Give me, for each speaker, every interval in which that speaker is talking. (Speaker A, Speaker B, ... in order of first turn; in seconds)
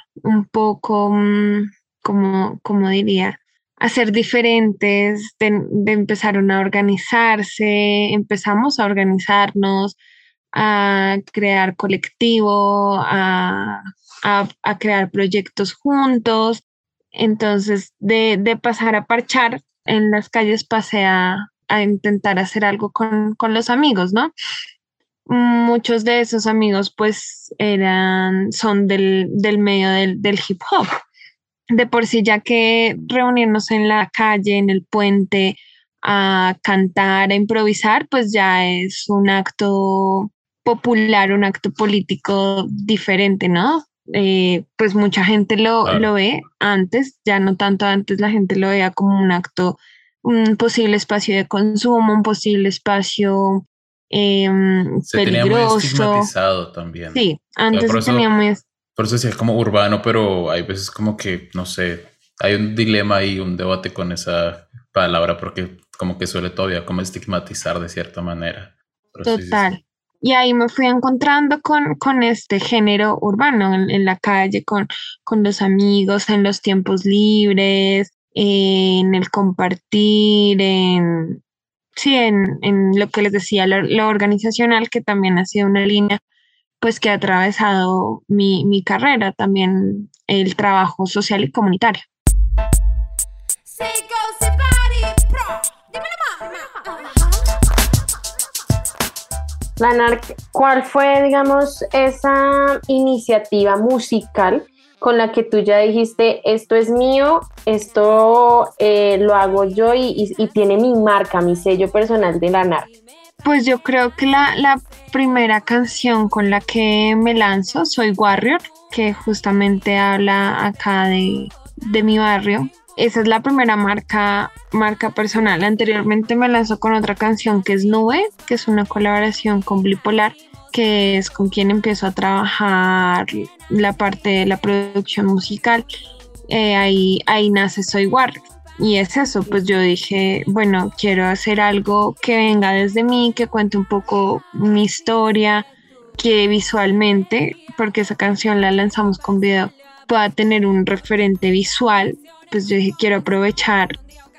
Speaker A: 0.2-10.0, 10.5-16.6, 17.1-24.3, 25.3-30.9, 31.7-56.3, 57.1-58.6, 69.2-81.4, 82.0-86.2, 86.8-92.0, 93.8-95.6, 113.4-135.8, 136.5-154.0
Speaker B: 55.1-58.3, 58.9-69.7
Speaker C: 99.8-112.9